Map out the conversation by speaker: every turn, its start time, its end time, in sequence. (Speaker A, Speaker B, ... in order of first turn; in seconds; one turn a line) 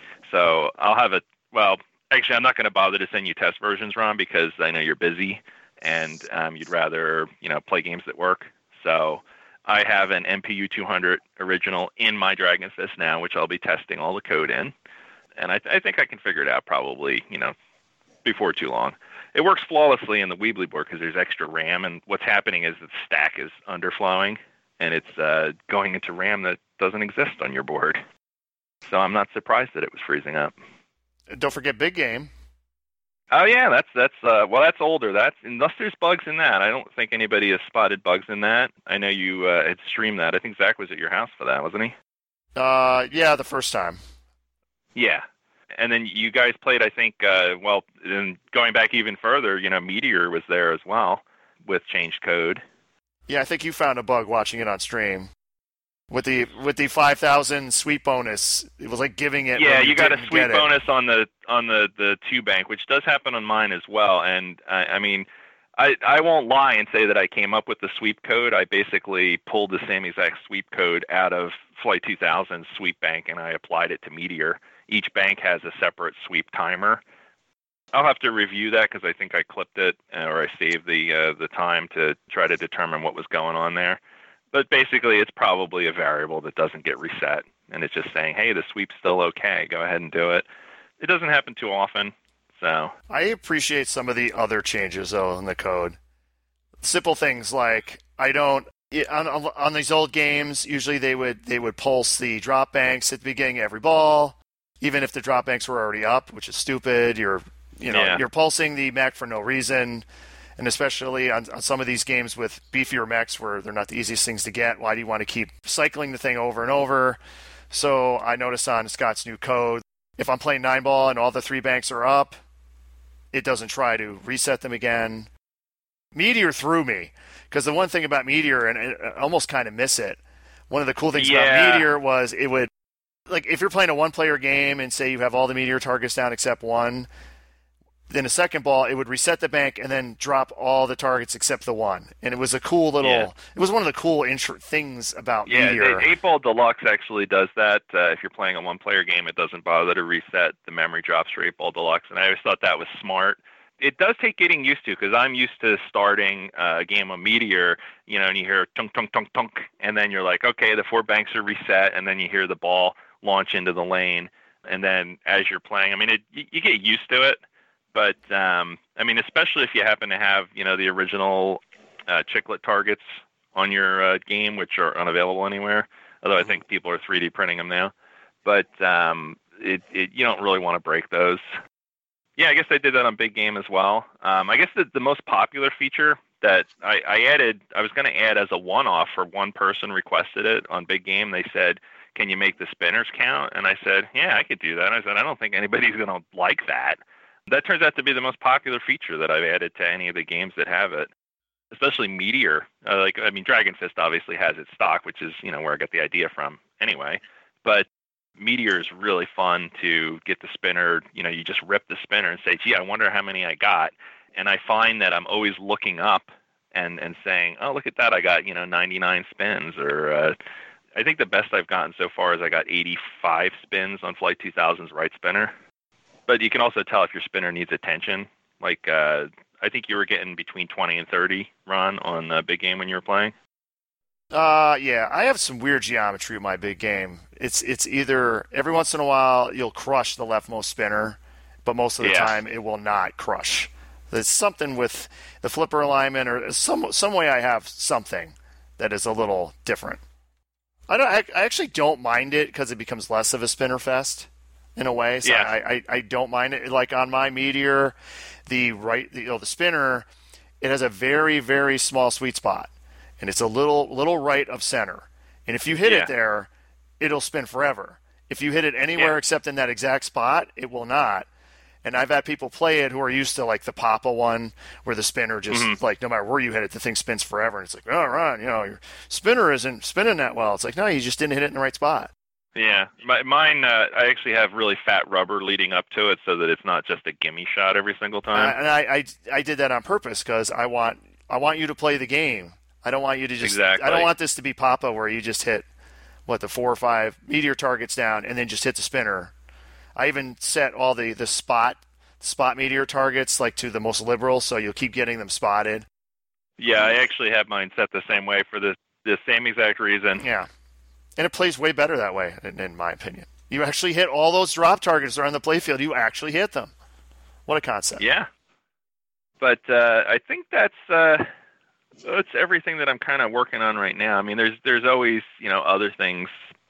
Speaker A: 0.2-14.7
Speaker A: 15.4-17.5
Speaker A: 18.2-28.0
Speaker A: 28.9-30.5
Speaker B: 31.3-32.3
Speaker A: 33.3-41.9
Speaker B: 42.5-44.0
Speaker A: 44.9-45.2
Speaker A: 45.8-52.6
Speaker B: 53.3-55.3
Speaker B: 56.1-60.7
Speaker A: 59.5-77.0
Speaker A: 77.9-84.0
Speaker A: 84.5-90.5
Speaker A: 91.0-92.9
Speaker B: 93.1-96.0
Speaker B: 96.8-110.0
Speaker A: 107.9-108.2
Speaker B: 110.6-117.2
Speaker B: 117.7-122.3
Speaker B: 123.3-125.3
Speaker B: 126.1-130.2
Speaker B: 130.7-132.7
Speaker A: 131.1-131.9
Speaker B: 133.3-137.1
Speaker B: 138.1-146.1
Speaker A: 143.0-143.3
Speaker A: 145.4-167.4
Speaker A: 167.9-177.9
Speaker A: 178.4-181.4
Speaker A: 182.4-201.1
Speaker A: 201.7-207.9
Speaker A: 208.4-220.3
Speaker A: 220.9-225.5
Speaker A: 226.3-233.3
Speaker B: 234.3-250.0
Speaker A: 242.0-242.3
Speaker B: 250.9-257.9
Speaker A: 255.2-255.5
Speaker B: 258.5-260.1
Speaker B: 260.6-266.5
Speaker A: 265.8-266.1
Speaker B: 267.0-271.3
Speaker B: 271.8-282.1
Speaker A: 275.5-275.8
Speaker A: 282.6-288.5
Speaker B: 288.3-295.6
Speaker A: 293.4-294.1
Speaker B: 296.3-299.3
Speaker B: 299.9-305.9
Speaker A: 306.6-310.2
Speaker B: 310.2-310.5
Speaker B: 311.2-316.7
Speaker B: 317.5-318.0
Speaker A: 318.0-318.3
Speaker A: 319.4-321.3
Speaker A: 322.0-326.3